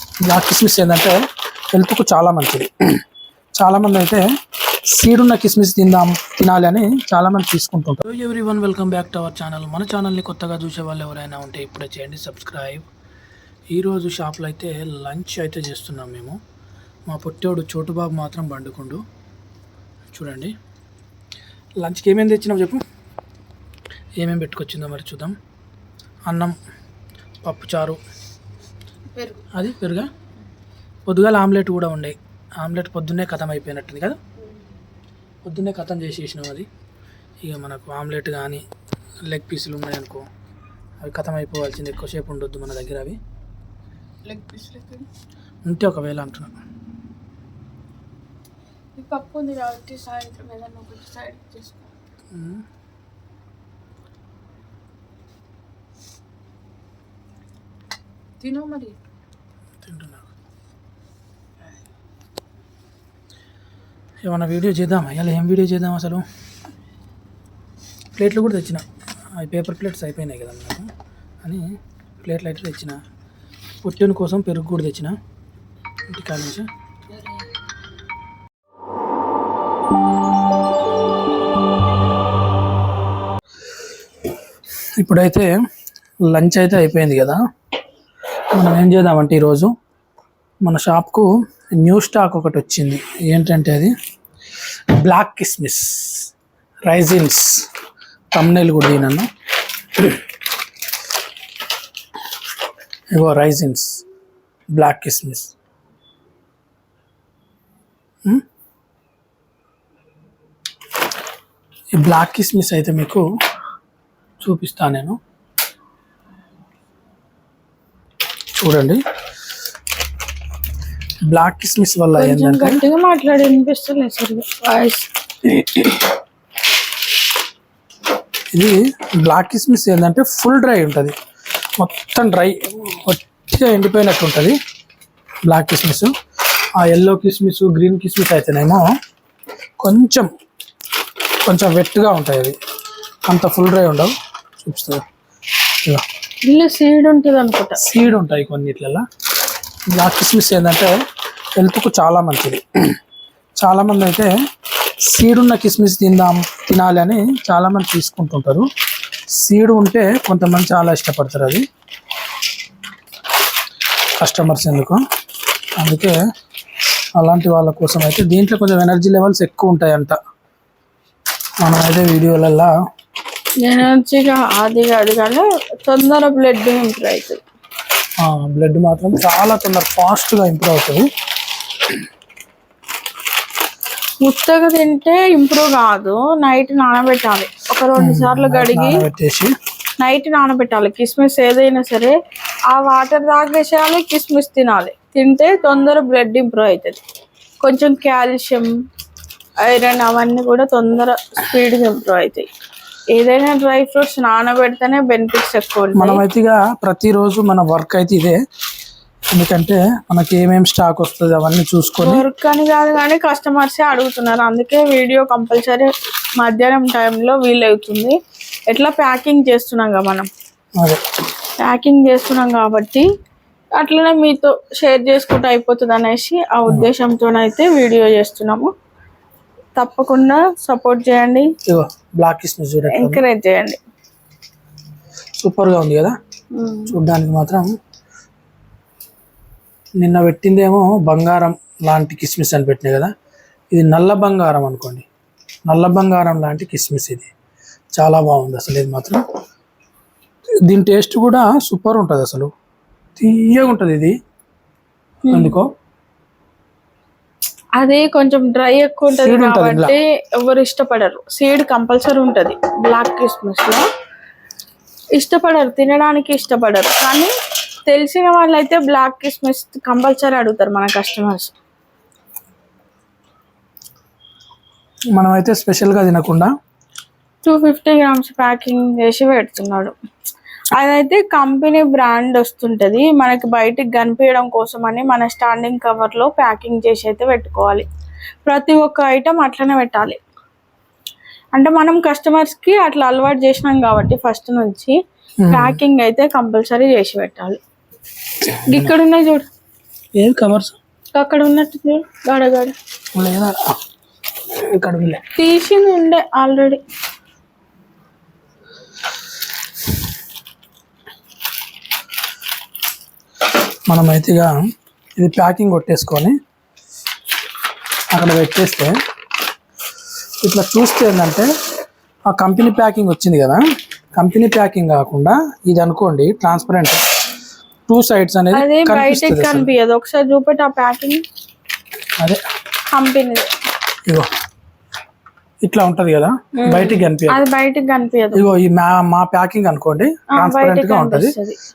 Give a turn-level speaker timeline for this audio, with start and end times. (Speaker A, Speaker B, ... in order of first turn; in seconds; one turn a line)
Speaker A: 0.2-1.2
Speaker A: 1.7-2.7
Speaker A: 3.6-4.3
Speaker A: 4.9-12.8
Speaker A: 13.7-16.4
Speaker A: 17.1-19.0
Speaker A: 20.1-20.5
Speaker A: 21.8-22.8
Speaker A: 24.2-25.4
Speaker A: 26.3-26.6
Speaker A: 27.4-28.0
Speaker A: 29.5-30.1
Speaker A: 31.1-34.2
Speaker A: 35.4-36.7
Speaker A: 37.4-38.6
Speaker A: 39.3-40.2
Speaker A: 41.0-43.2
Speaker B: 44.2-45.1
Speaker A: 45.6-46.5
Speaker B: 49.0-51.9
Speaker A: 52.3-52.6
Speaker B: 58.4-58.9
Speaker A: 59.8-60.3
Speaker A: 64.2-66.2
Speaker A: 68.2-68.8
Speaker A: 69.3-70.9
Speaker A: 71.4-73.0
Speaker A: 73.8-75.1
Speaker A: 76.1-76.7
Speaker A: 85.0-85.5
Speaker A: 86.3-87.4
Speaker A: 88.5-89.7
Speaker A: 90.6-93.9
Speaker A: 95.0-96.3
Speaker A: 96.8-97.6
Speaker A: 98.3-99.3
Speaker A: 100.0-100.2
Speaker A: 103.1-104.0
Speaker A: 104.7-105.5
Speaker A: 112.0-113.2
Speaker A: 114.4-115.2
Speaker A: 118.5-119.0
Speaker A: 121.3-122.8
Speaker B: 122.2-125.9
Speaker A: 128.5-131.1
Speaker A: 131.8-134.6
Speaker A: 135.4-136.1
Speaker A: 136.8-138.8
Speaker A: 139.8-140.3
Speaker A: 141.4-142.6
Speaker A: 143.3-145.0
Speaker B: 146.4-147.8
Speaker A: 147.8-149.0
Speaker A: 149.9-150.9
Speaker A: 151.6-152.6
Speaker A: 153.6-154.3
Speaker A: 155.1-158.7
Speaker A: 159.3-161.6
Speaker A: 164.2-165.0
Speaker A: 165.8-166.2
Speaker A: 167.2-170.2
Speaker A: 171.6-172.7
Speaker B: 173.6-177.4
Speaker A: 178.2-181.1
Speaker B: 184.2-189.0
Speaker A: 188.0-189.5
Speaker B: 190.0-192.2
Speaker B: 192.7-197.0
Speaker B: 197.6-198.7
Speaker B: 199.6-202.5
Speaker B: 203.1-206.2
Speaker A: 205.9-208.4
Speaker A: 209.3-212.2
Speaker B: 212.0-218.2
Speaker B: 218.7-220.3
Speaker B: 221.6-223.1
Speaker B: 223.8-228.7
Speaker B: 229.8-231.5
Speaker A: 231.7-233.2
Speaker B: 232.9-233.8
Speaker A: 235.4-236.2
Speaker B: 236.5-236.9
Speaker A: 236.9-237.7
Speaker A: 240.0-243.1
Speaker A: 243.7-245.0
Speaker A: 245.7-247.3
Speaker A: 247.9-249.2
Speaker A: 250.7-252.5
Speaker A: 253.2-254.1
Speaker B: 255.2-255.6
Speaker A: 255.3-255.7
Speaker B: 257.8-263.8
Speaker A: 259.1-259.9
Speaker B: 265.1-267.3
Speaker B: 267.9-271.5
Speaker A: 275.1-276.5
Speaker B: 277.4-279.9
Speaker B: 280.8-287.8
Speaker B: 288.4-290.2
Speaker B: 291.5-294.9
Speaker A: 295.4-295.8
Speaker B: 295.5-297.6
Speaker B: 298.7-299.5
Speaker A: 298.7-298.9
Speaker A: 300.2-300.8
Speaker B: 301.1-302.7
Speaker A: 303.1-303.6
Speaker A: 304.6-305.2
Speaker B: 305.4-306.8
Speaker A: 313.9-314.5
Speaker A: 315.2-316.4
Speaker A: 318.1-319.0
Speaker A: 320.4-321.5
Speaker A: 322.3-323.6
Speaker A: 324.1-327.0
Speaker A: 327.9-329.7
Speaker B: 328.5-331.2
Speaker B: 332.9-333.5
Speaker A: 335.6-337.4
Speaker B: 336.6-338.5
Speaker A: 338.3-341.3
Speaker B: 340.3-341.6